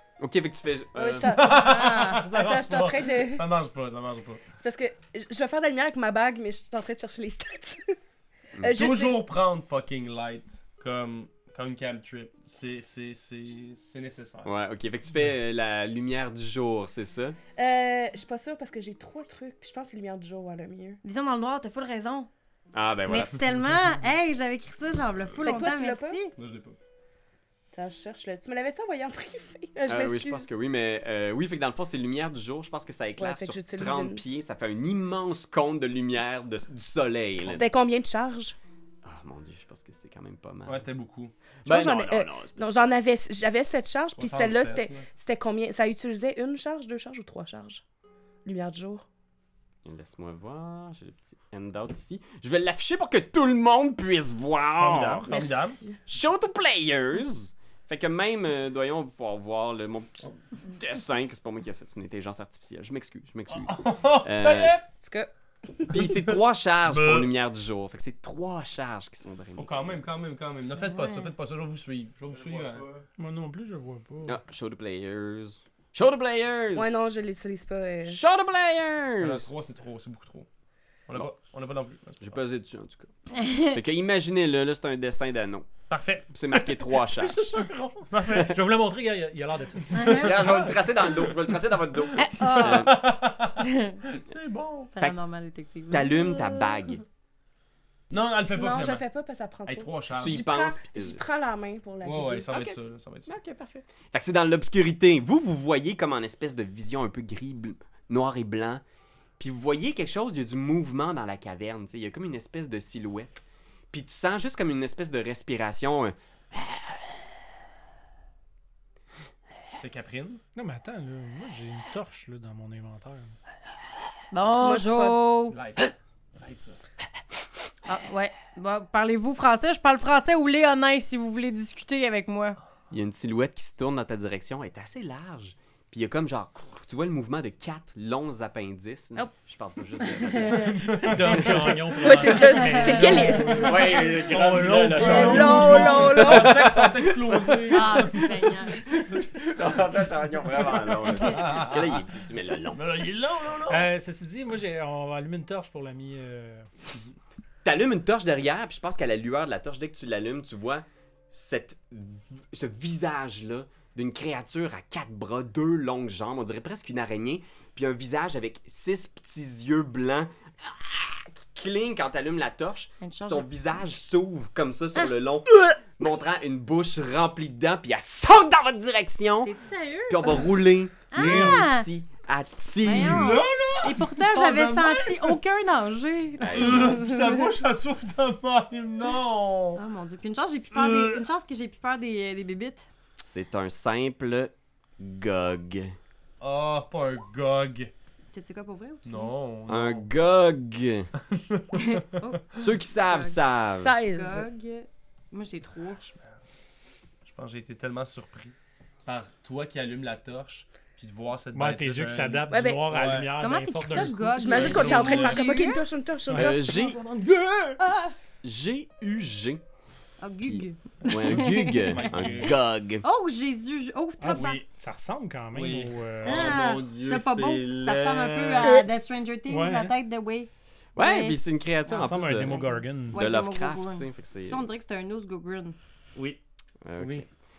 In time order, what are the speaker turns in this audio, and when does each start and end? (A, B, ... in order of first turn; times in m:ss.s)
0:00.2-0:01.4 A
0:00.9-0:03.4 B
0:01.2-0:04.4 C
0:01.5-0:02.2 D
0:04.6-0:08.0 B
0:08.6-0:09.2 B
0:08.8-0:14.5 C
0:14.4-0:17.4 A
0:17.6-0:21.0 B
0:21.0-0:22.3 D
0:22.7-0:23.4 A
0:23.1-0:26.3 D
0:25.4-0:26.2 B
0:26.4-0:26.8 C
0:27.7-0:30.5 B
0:29.8-0:37.6 A
0:33.2-0:34.2 B
0:37.4-0:38.6 B
0:39.0-0:40.8 A
0:40.6-0:41.3 C
0:41.6-0:42.8 A
0:41.6-0:47.8 B
0:44.2-0:45.0 C
0:48.4-0:49.0 B
0:49.8-0:55.3 A
0:54.7-0:55.8 C
0:55.2-0:56.0 B
0:56.0-1:04.8 A
1:03.5-1:04.8 C
1:05.0-1:06.0 B
1:05.9-1:10.0 A
1:05.9-1:07.3 C
1:09.6-1:13.0 C
1:10.8-1:11.3 D
1:13.2-1:14.4 E
1:14.2-1:16.9 A
1:16.7-1:18.2 B
1:18.1-1:19.5 A
1:19.2-1:20.5 C
1:21.1-1:22.4 C
1:22.2-1:25.7 A
1:23.3-1:23.8 D
1:25.9-1:26.8 C
1:26.3-1:27.6 A
1:27.2-1:30.7 E
1:28.1-1:28.6 C
1:28.3-1:28.5 A
1:29.9-1:30.3 D
1:30.0-1:34.9 C
1:30.1-1:32.9 A
1:32.2-1:34.0 D
1:34.9-1:36.8 D
1:35.9-1:37.0 A
1:38.1-1:39.0 C
1:38.5-1:43.8 B
1:39.6-1:40.4 C
1:40.2-1:41.2 A
1:42.0-1:43.3 C
1:44.1-1:48.8 A
1:49.4-1:56.1 A
1:59.8-2:00.4 C
2:00.5-2:03.4 E
2:04.3-2:05.6 D
2:04.5-2:05.2 B
2:05.5-2:06.8 C
2:07.8-2:12.6 D
2:12.9-2:21.5 A
2:20.0-2:20.8 D
2:20.6-2:22.3 C
2:20.9-2:26.5 E
2:22.0-2:23.7 B
2:22.3-2:23.6 D
2:22.8-2:28.8 C
2:23.2-2:27.5 A
2:25.0-2:26.8 B
2:27.6-2:28.8 D
2:29.0-2:32.8 A
2:30.6-2:32.0 C
2:32.7-2:33.9 C
2:33.7-2:36.7 E
2:37.6-2:59.5 A
2:53.0-2:53.5 D
2:59.4-3:00.5 D
3:00.1-3:03.4 A
3:01.1-3:01.9 D
3:01.2-3:01.6 C
3:02.8-3:07.4 D
3:02.9-3:05.4 C
3:06.4-3:07.0 A
3:06.5-3:09.8 C
3:09.8-3:12.8 D
3:10.7-3:11.2 C
3:13.2-3:15.9 A
3:16.4-3:17.9 C
3:18.3-3:19.3 D
3:19.0-3:20.1 C
3:19.7-3:21.1 A
3:21.3-3:22.0 C
3:21.7-3:26.0 D
3:22.6-3:23.9 A
3:23.8-3:24.5 B
3:26.0-3:26.4 C
3:27.2-3:28.5 C
3:29.0-3:33.3 C
3:31.5-3:34.8 E
3:32.5-3:32.9 B
3:33.4-3:35.8 D
3:33.9-3:35.6 C
3:34.3-3:36.7 B
3:36.3-3:37.8 E
3:36.3-3:37.0 A
3:38.4-3:39.6 A
3:40.2-3:44.6 D
3:40.4-3:43.0 A
3:41.2-3:42.5 C
3:44.2-3:46.6 E
3:44.3-3:44.6 C
3:45.5-3:48.8 C
3:46.2-3:51.4 D
3:49.5-3:49.9 E
3:51.0-3:52.6 A
3:51.9-3:53.2 E
3:52.5-3:55.8 D
3:53.1-3:54.6 A
3:56.1-3:56.4 C
3:56.8-3:57.3 A
3:57.0-3:57.3 C